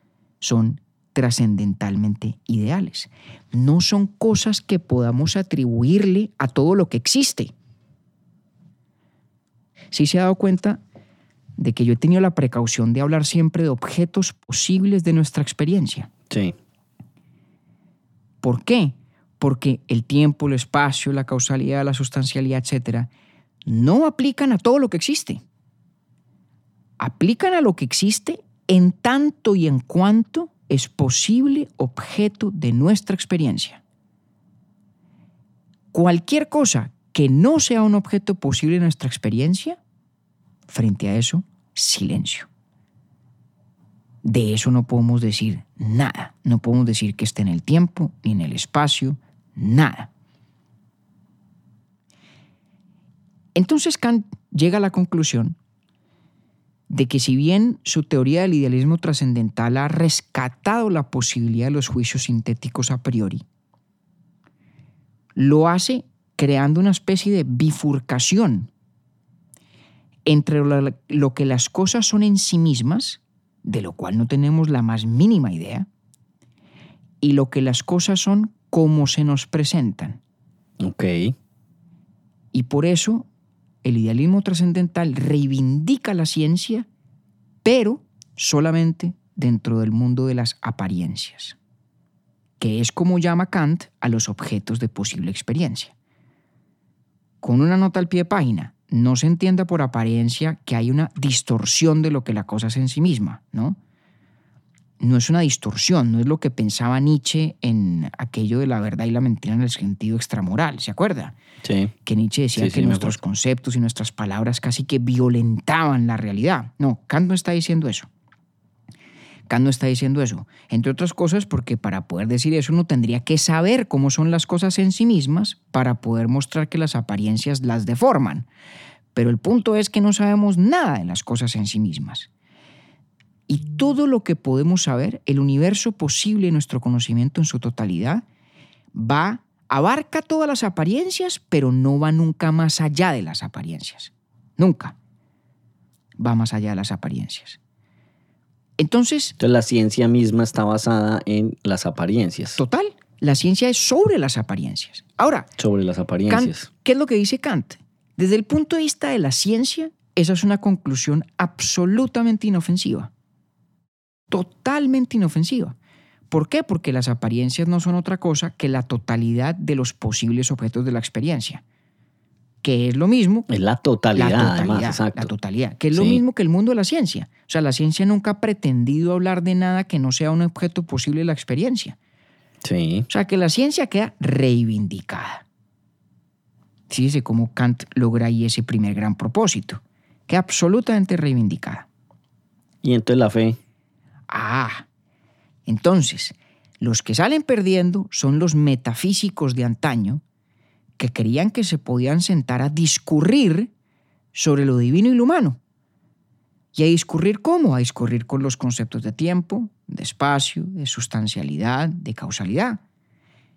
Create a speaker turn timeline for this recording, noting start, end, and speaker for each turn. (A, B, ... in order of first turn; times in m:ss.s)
0:00.4-0:07.5 A
0:09.9-0:10.8 A
0:11.6-0:16.1 A
0:16.3-0:16.6 B
0:18.4-0:23.1 A
0:23.7-0:25.4 A
0:27.0-0:33.8 A
0:35.9-0:39.8 A
0:40.7-0:42.5 A
0:44.2-0:50.1 A
0:53.6-0:55.6 A
0:56.9-1:03.4 A
1:05.4-1:08.7 A
1:10.3-1:15.9 A
1:17.2-1:20.2 A
1:20.8-1:21.4 B
1:22.5-1:23.3 A
1:23.8-1:26.9 A
1:27.6-1:31.6 A
1:32.6-1:35.9 A
1:37.4-1:43.8 A
1:45.0-1:51.4 A
1:51.6-1:51.9 B
1:52.0-1:58.1 A
1:52.6-1:53.2 B
1:59.5-2:08.5 A
2:09.2-2:12.3 A
2:13.5-2:18.2 A
2:18.9-2:25.0 A
2:26.2-2:27.6 A
2:28.8-2:29.4 A
2:29.4-2:32.6 B
2:32.6-2:35.5 A
2:35.6-2:36.7 B
2:36.3-2:43.1 A
2:44.3-2:45.8 A
2:46.3-2:51.6 A
2:52.6-2:53.5 A
2:53.5-2:55.3 B
2:54.2-3:02.0 A
2:55.9-2:56.2 B
3:02.6-3:03.1 B
3:03.1-3:05.4 A
3:06.9-3:11.9 A
3:12.8-3:13.6 B
3:14.3-3:14.9 A
3:15.7-3:20.2 A
3:21.0-3:23.7 A
3:24.3-3:25.6 A
3:26.8-3:32.8 A